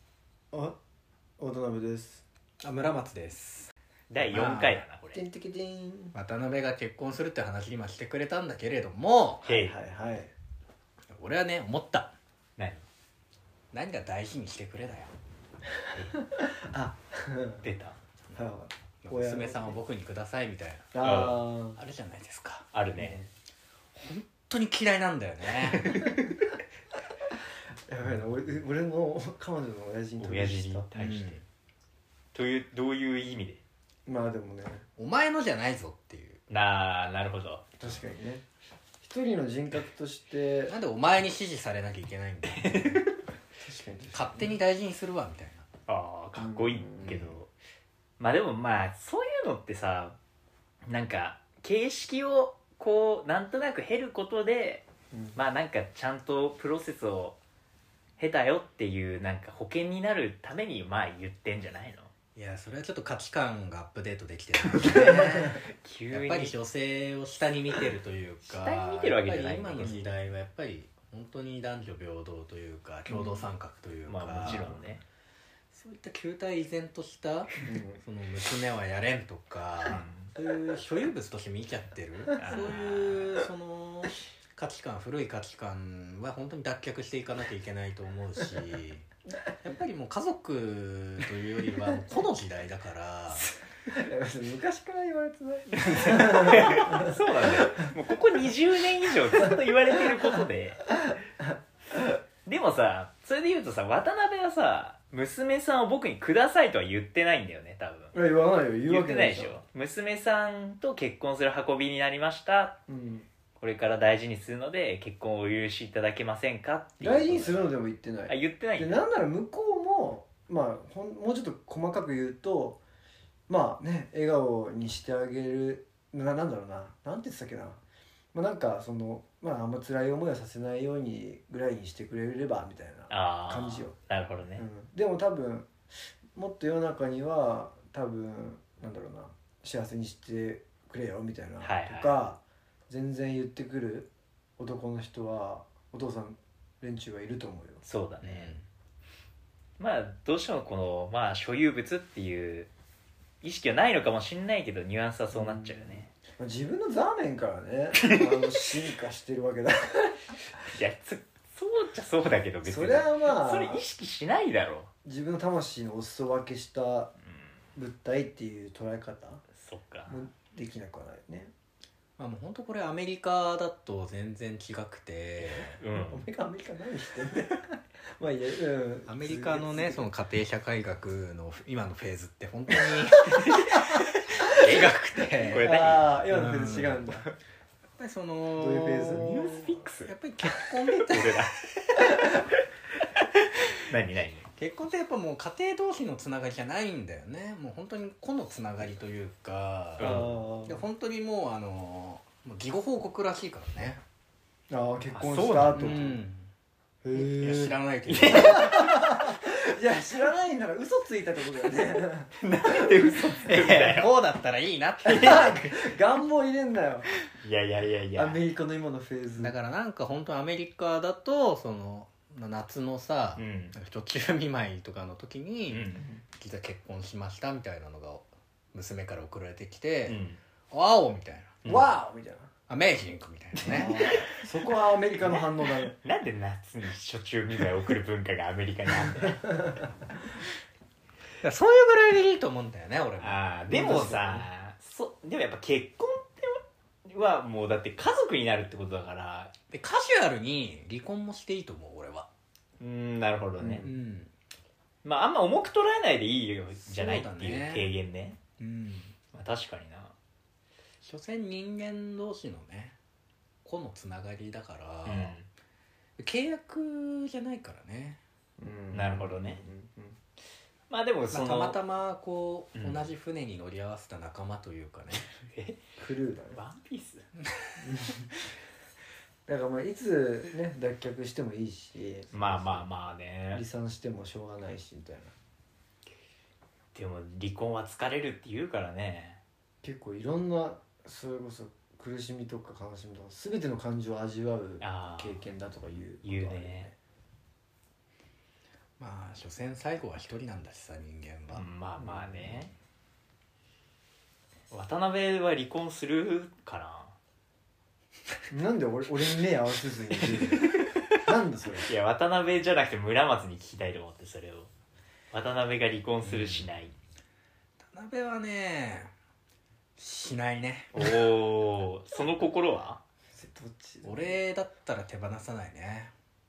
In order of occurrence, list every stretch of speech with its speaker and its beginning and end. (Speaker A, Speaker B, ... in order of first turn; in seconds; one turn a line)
Speaker A: 1.4-2.2
Speaker B: 2.6-4.9
Speaker C: 4.1-5.2
Speaker A: 5.1-6.2
Speaker B: 6.1-9.4
Speaker C: 9.4-9.8
Speaker A: 9.5-10.3
Speaker B: 11.1-12.1
Speaker C: 12.6-12.8
Speaker B: 13.7-15.1
Speaker A: 16.1-17.6
Speaker C: 17.6-18.0
Speaker A: 18.3-19.8
Speaker B: 19.0-21.0
Speaker A: 20.9-21.8
Speaker C: 21.0-21.4
Speaker B: 21.6-22.7
Speaker C: 22.7-23.2
Speaker A: 23.0-23.3
Speaker B: 23.9-26.1
Speaker C: 25.7-26.2
Speaker A: 27.9-30.9
Speaker C: 30.2-31.4
Speaker B: 30.9-31.4
Speaker C: 32.3-33.6
Speaker A: 34.1-34.9
Speaker B: 35.0-36.4
Speaker C: 36.5-37.7
Speaker A: 37.8-38.4
Speaker A: 39.0-40.8
Speaker B: 40.7-43.1
Speaker C: 42.5-43.1
Speaker A: 43.6-44.5
Speaker B: 44.1-45.7
Speaker C: 45.9-47.5
Speaker A: 46.4-47.4
Speaker C: 48.2-50.2
Speaker C: 50.9-57.4
Speaker A: 55.1-55.4
Speaker C: 58.2-62.1
Speaker B: 62.4-74.9
Speaker C: 64.8-66.6
Speaker C: 68.5-70.1
Speaker A: 73.1-73.4
Speaker C: 74.1-75.0
Speaker B: 75.7-89.1
Speaker A: 77.6-78.0
Speaker C: 79.9-80.3
Speaker C: 82.4-83.4
Speaker B: 89.6-93.5
Speaker A: 93.9-97.9
Speaker C: 95.8-100.8
Speaker A: 99.3-100.3
Speaker A: 101.1-101.5
Speaker C: 102.5-108.2
Speaker A: 108.1-109.6
Speaker C: 108.9-112.8
Speaker A: 112.9-113.3
Speaker C: 113.6-117.7
Speaker A: 117.0-122.8
Speaker C: 118.3-119.0
Speaker A: 123.5-127.8
Speaker A: 128.3-134.0
Speaker C: 133.1-134.6
Speaker A: 134.6-135.7
Speaker A: 136.3-147.8
Speaker C: 141.6-142.2
Speaker C: 147.8-148.5
Speaker B: 148.2-148.7
Speaker C: 149.8-152.7
Speaker C: 153.4-156.1
Speaker A: 155.3-160.2
Speaker C: 160.7-164.9
Speaker A: 162.6-163.9
Speaker A: 165.1-167.1
Speaker A: 167.8-169.4
Speaker C: 169.6-170.2
Speaker A: 170.1-171.5
Speaker B: 172.2-175.8
Speaker A: 175.4-177.6
Speaker C: 175.8-176.3
Speaker A: 178.2-180.1
Speaker B: 179.1-187.1
Speaker C: 184.5-186.2
Speaker A: 185.5-187.3
Speaker B: 188.0-191.5
Speaker A: 188.6-189.4
Speaker C: 189.2-192.4
Speaker C: 193.7-194.5
Speaker B: 194.6-204.0
Speaker C: 200.0-200.4
Speaker A: 200.0-200.8
Speaker A: 204.7-206.2
Speaker C: 205.1-206.1
Speaker B: 205.7-206.5
Speaker A: 207.0-213.1
Speaker B: 207.1-208.6
Speaker C: 208.1-209.1
Speaker C: 212.4-214.1
Speaker B: 213.5-215.7
Speaker C: 215.1-215.5
Speaker A: 215.1-217.1
Speaker C: 217.3-218.4
Speaker A: 218.2-219.6
Speaker B: 219.4-232.0
Speaker C: 223.4-223.8
Speaker C: 225.7-226.1
Speaker C: 230.1-230.4
Speaker C: 231.6-231.9
Speaker A: 231.7-232.5
Speaker B: 232.7-234.3
Speaker C: 233.6-234.3
Speaker A: 233.7-235.9
Speaker C: 235.2-239.6
Speaker B: 241.4-244.4
Speaker C: 243.2-249.5
Speaker A: 243.7-244.4
Speaker B: 249.7-252.3
Speaker C: 252.8-253.9
Speaker A: 253.6-253.9
Speaker B: 253.8-254.3
Speaker C: 255.0-258.4
Speaker B: 256.9-257.9
Speaker B: 258.6-259.2
Speaker C: 259.3-260.1
Speaker B: 261.0-263.0
Speaker B: 263.6-265.4
Speaker C: 265.1-265.5
Speaker B: 266.2-268.2
Speaker A: 268.6-270.2
Speaker C: 268.9-269.6
Speaker C: 270.9-271.8
Speaker B: 271.3-275.3
Speaker C: 272.8-273.1
Speaker C: 275.4-275.8
Speaker A: 276.0-276.6
Speaker C: 276.5-277.3
Speaker A: 277.8-278.3
Speaker A: 279.5-282.8
Speaker C: 282.3-283.6
Speaker A: 283.5-285.3
Speaker C: 286.9-289.4
Speaker A: 289.8-297.0
Speaker C: 294.8-295.5
Speaker C: 296.2-296.9
Speaker B: 299.0-301.7
Speaker C: 301.5-302.7
Speaker A: 302.0-302.6
Speaker C: 304.7-307.1
Speaker A: 308.5-311.9
Speaker C: 310.5-311.1
Speaker C: 311.9-314.7
Speaker C: 315.3-316.9
Speaker B: 316.2-316.7
Speaker B: 317.8-319.1
Speaker B: 320.0-320.9
Speaker C: 320.9-323.0
Speaker A: 323.3-324.4
Speaker B: 324.0-326.1